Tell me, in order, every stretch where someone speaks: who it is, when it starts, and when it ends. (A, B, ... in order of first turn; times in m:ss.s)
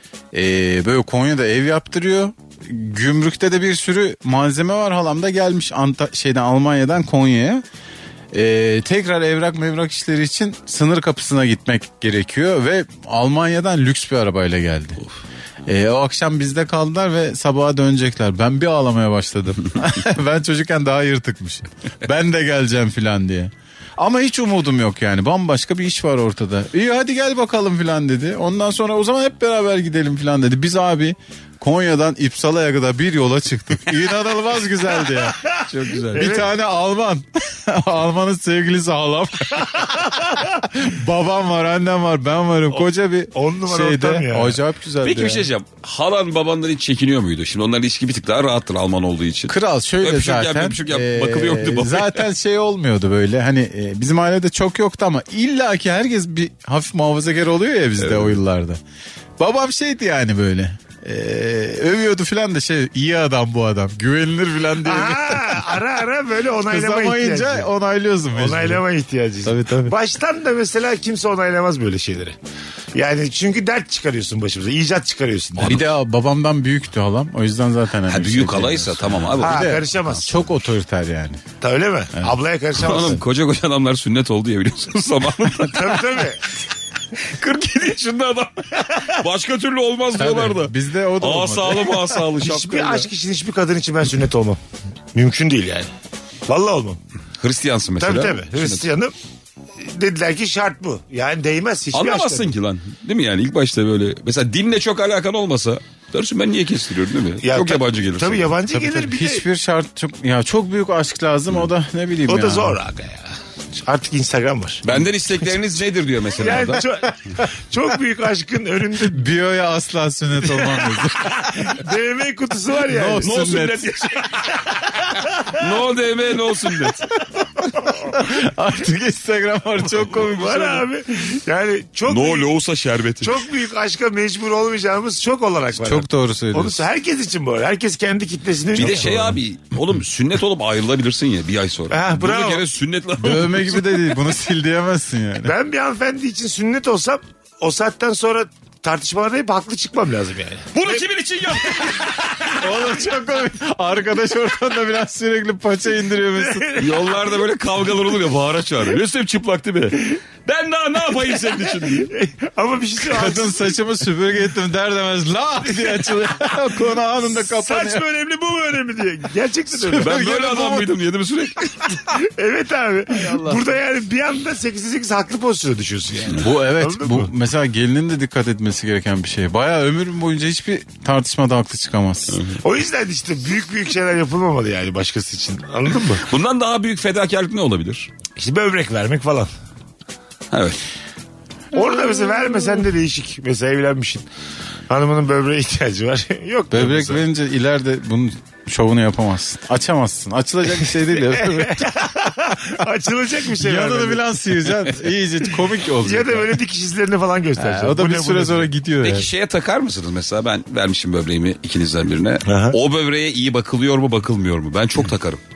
0:00.3-0:07.6 A
0:08.3-0:15.0 A
0:15.7-0:35.5 A
0:35.4-0:36.5 B
0:35.6-0:36.4 C
0:36.2-0:40.1 A
0:39.7-0:40.6 B
0:40.6-0:45.5 A
0:42.7-0:44.6 B
0:45.0-0:52.2 C
0:49.5-0:58.8 A
0:58.0-0:58.4 C
0:59.4-1:05.8 A
1:04.8-1:07.7 B
1:06.7-1:08.8 A
1:08.3-1:12.4 B
1:09.4-1:09.9 A
1:13.0-1:15.8 B
1:15.6-1:21.4 A
1:15.6-1:15.9 C
1:18.1-1:20.3 C
1:19.4-1:20.4 B
1:21.6-1:23.2 B
1:22.8-1:26.2 C
1:22.9-1:23.2 A
1:25.6-1:26.4 B
1:27.2-1:33.1 C
1:28.8-1:29.2 B
1:30.2-1:32.2 A
1:32.4-1:34.6 B
1:35.1-1:35.9 B
1:36.5-1:37.0 B
1:37.4-1:38.8 C
1:38.0-1:39.1 B
1:39.8-1:42.5 B
1:41.9-1:48.5 C
1:47.4-1:49.4 B
1:48.7-1:52.8 A
1:52.3-1:54.9 B
1:54.8-1:56.8 C
1:56.4-1:59.3 B
1:59.0-2:01.7 A
2:00.6-2:03.3 B
2:02.9-2:04.1 A
2:03.2-2:04.6 C
2:04.5-2:05.6 B
2:05.5-2:07.1 C
2:07.8-2:08.1 B
2:07.9-2:10.8 A
2:10.0-2:12.5 B
2:12.1-2:13.5 C
2:13.2-2:19.1 B
2:15.8-2:16.8 A
2:18.8-2:19.4 A
2:18.8-2:24.2 C
2:21.9-2:22.6 B
2:23.2-2:25.5 A
2:25.4-2:31.0 B
2:30.7-2:32.5 C
2:31.6-2:32.6 B
2:32.6-2:36.7 A
2:36.4-2:37.4 B
2:36.8-2:42.1 C
2:41.3-2:43.8 B
2:43.0-2:48.0 A
2:45.7-2:46.5 B
2:47.3-2:50.2 B
2:49.7-2:50.9 A
2:50.0-2:52.0 C
2:51.9-2:57.3 B
2:56.4-3:02.4 A
3:02.3-3:02.6 C
3:02.6-3:06.2 B
3:06.2-3:08.1 C
3:08.4-3:09.5 B
3:10.5-3:10.8 C
3:11.7-3:14.3 B
3:14.9-3:17.2 B
3:16.7-3:21.8 A
3:21.1-3:24.7 B
3:23.5-3:26.6 A
3:26.0-3:28.7 B
3:27.6-3:29.3 A
3:29.0-3:35.4 C
3:32.4-3:32.8 B